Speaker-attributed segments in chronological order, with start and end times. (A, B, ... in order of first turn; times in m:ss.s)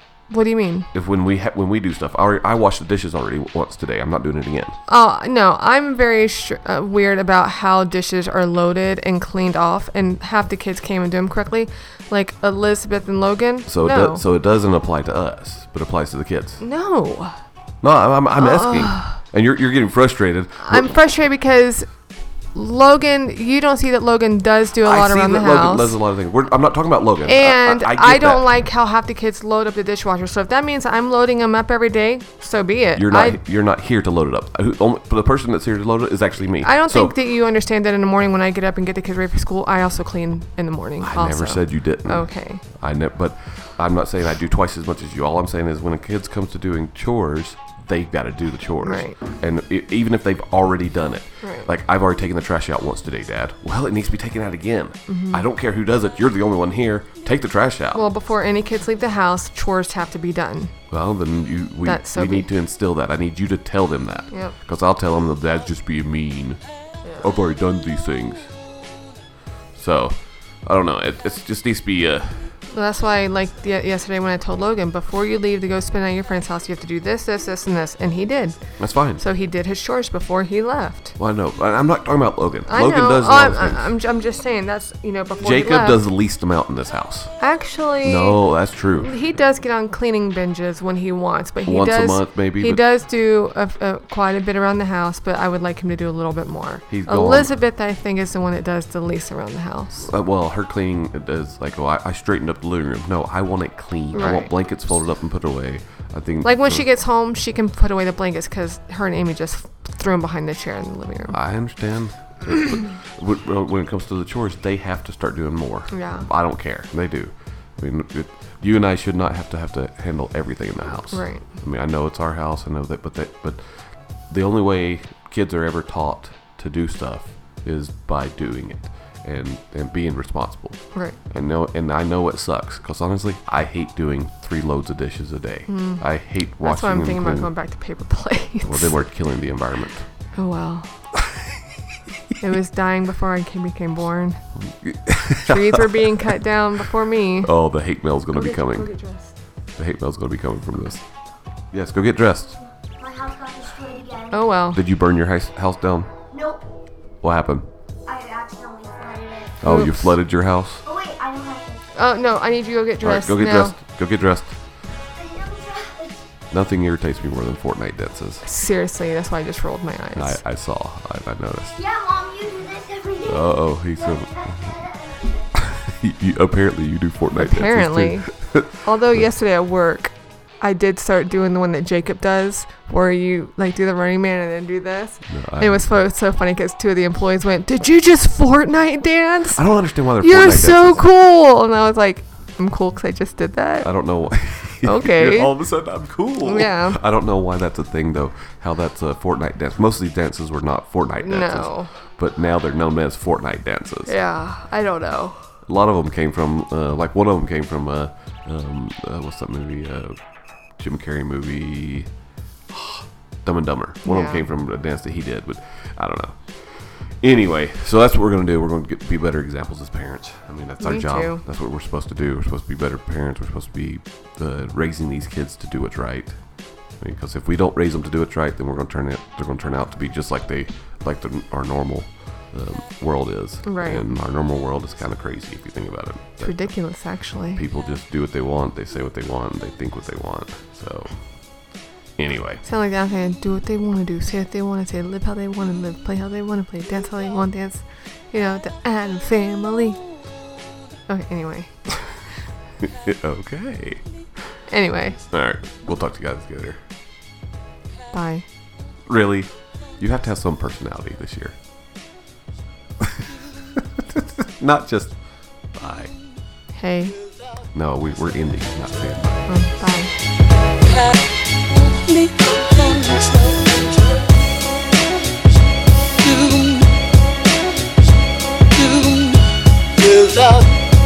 0:00.3-0:00.9 A
0:00.9-0:04.8 B
0:04.9-0:14.2 A
0:13.7-0:16.6 B
0:16.6-0:17.4 A
0:17.8-0:20.9 B
0:18.4-0:19.2 A
0:20.6-0:21.9 A
0:22.5-0:26.0 A
0:24.8-0:28.5 B
0:27.2-0:33.4 A
0:33.0-0:37.2 B
0:36.6-0:42.6 A
0:41.0-0:58.0 B
0:48.8-0:49.2 A
0:51.4-0:51.7 A
0:55.1-0:55.4 A
0:57.9-1:00.7 A
1:00.9-1:06.6 B
1:01.8-1:02.5 A
1:07.2-1:08.5 B
1:09.7-1:12.5 B
1:12.7-1:21.2 A
1:18.8-1:19.2 B
1:21.2-1:23.9 B
1:22.7-1:26.0 A
1:25.4-1:27.3 B
1:27.4-1:28.4 A
1:28.0-1:29.1 B
1:29.0-1:40.1 A
1:31.6-1:32.8 B
1:36.9-1:37.5 B
1:40.0-1:46.8 B
1:44.1-1:44.5 A
1:46.4-1:51.4 A
1:51.3-2:03.6 B
1:55.9-1:56.3 A
2:01.1-2:01.4 A
2:04.3-2:10.8 B
2:11.3-2:17.5 B
2:15.7-2:16.0 A
2:16.6-2:18.9 A
2:18.6-2:20.0 B
2:20.3-2:20.9 A
2:22.4-2:24.4 A
2:24.8-2:25.8 B
2:25.4-2:27.5 A
2:27.4-2:28.9 B
2:28.3-2:29.3 A
2:29.8-2:31.0 B
2:31.7-2:32.6 B
2:33.0-2:34.3 C
2:34.3-2:34.8 A
2:34.7-2:36.1 B
2:36.3-2:36.6 C
2:37.2-2:37.7 B
2:38.1-2:39.6 C
2:39.6-2:40.9 B
2:39.6-2:40.1 A
2:40.9-2:41.8 C
2:41.9-2:43.8 A
2:43.0-2:44.5 B
2:45.1-2:46.2 C
2:46.5-2:48.4 B
2:48.4-2:50.4 A
2:50.2-2:51.8 B
2:51.8-2:53.3 C
2:53.2-2:54.8 B
2:54.3-2:55.3 C
2:55.5-2:58.8 B
2:57.3-3:13.9 A
3:05.3-3:06.0 B
3:09.5-3:11.0 B
3:13.8-3:24.1 B
3:14.8-3:15.5 A
3:16.4-3:17.0 A
3:21.2-3:21.9 A
3:24.0-3:25.4 A
3:25.6-3:30.2 B
3:30.8-3:32.1 B
3:32.7-3:46.4 B
3:34.0-3:34.4 A
3:40.8-3:41.4 A
3:47.0-3:56.6 B
3:53.6-3:54.1 A
3:56.4-3:57.6 A
3:57.5-4:02.6 B
4:02.6-4:10.0 A
4:11.1-4:11.8 A
4:12.8-4:14.0 B
4:14.7-4:15.2 A
4:15.3-4:16.8 B
4:18.1-4:18.4 A
4:19.1-4:21.5 B
4:24.0-4:25.2 B
4:25.7-4:26.1 B
4:26.7-4:27.2 A
4:27.7-4:29.5 B
4:29.5-4:30.1 A
4:32.1-4:33.7 D
4:36.3-4:36.8 D
4:38.9-4:39.3 D
4:40.1-4:40.7 D